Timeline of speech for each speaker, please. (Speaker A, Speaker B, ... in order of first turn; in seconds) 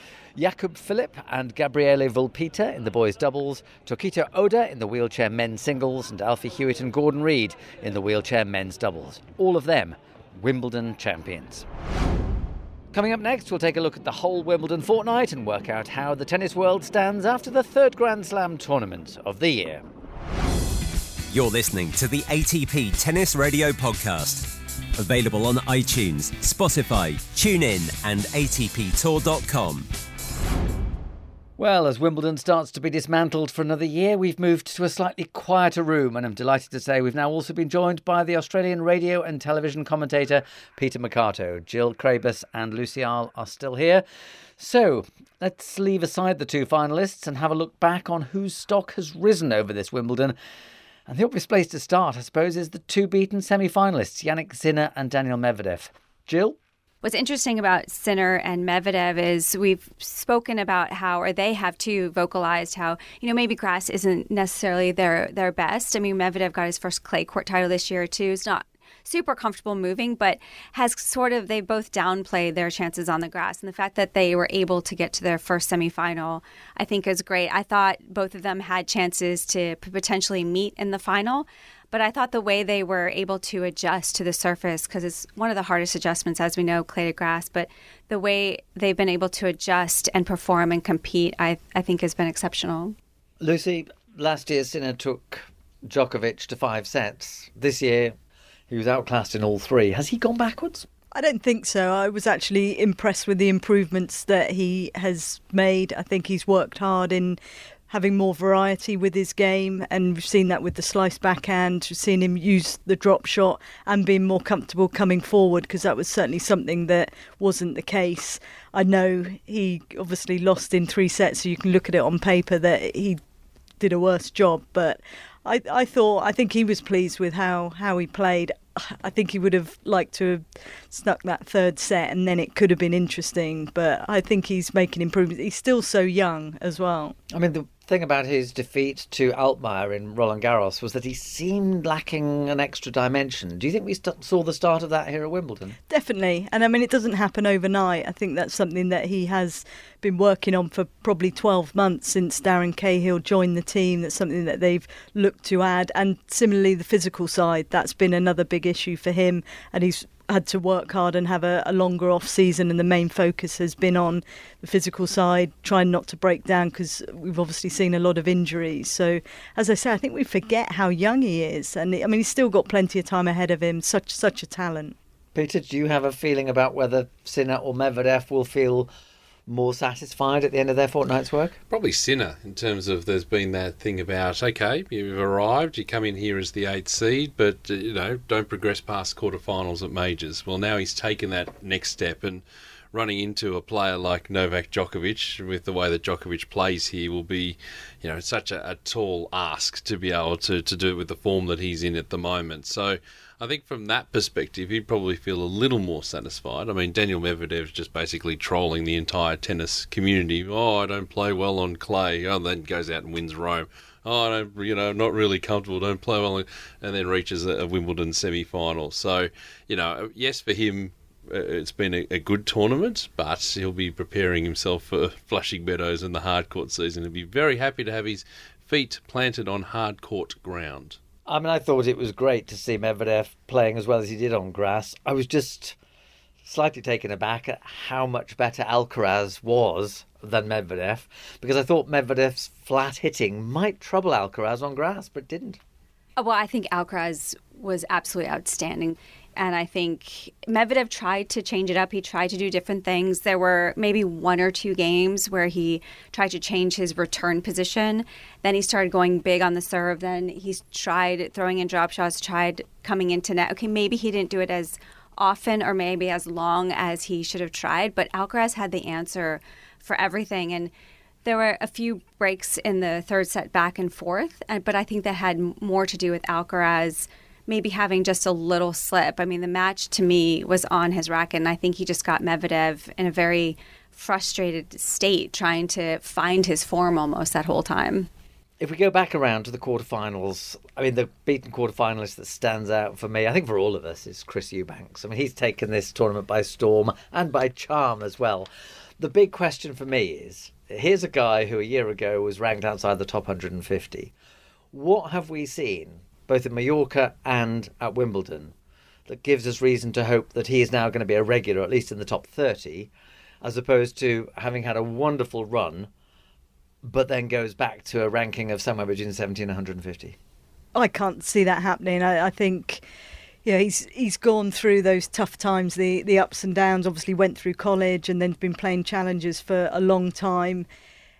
Speaker A: 0.3-11.7, 12.9-19.8, 31.6-44.0, 44.6-50.3, 51.1-56.6, 93.4-98.1, 98.7-100.9, 137.3-145.8, 175.3-178.9, 179.5-181.6, 231.2-235.8, 236.4-245.6, 288.6-298.5, 299.0-304.1, 304.7-308.5, 309.1-312.9, 313.4-315.9, 316.8-320.2
Speaker B: 21.3-29.9
Speaker C: 57.0-93.0, 246.2-270.7, 271.2-288.1
Speaker D: 101.1-107.4, 107.9-123.2, 123.8-137.2, 145.9-174.9, 320.7-322.8, 323.4-330.6
Speaker E: 181.7-231.0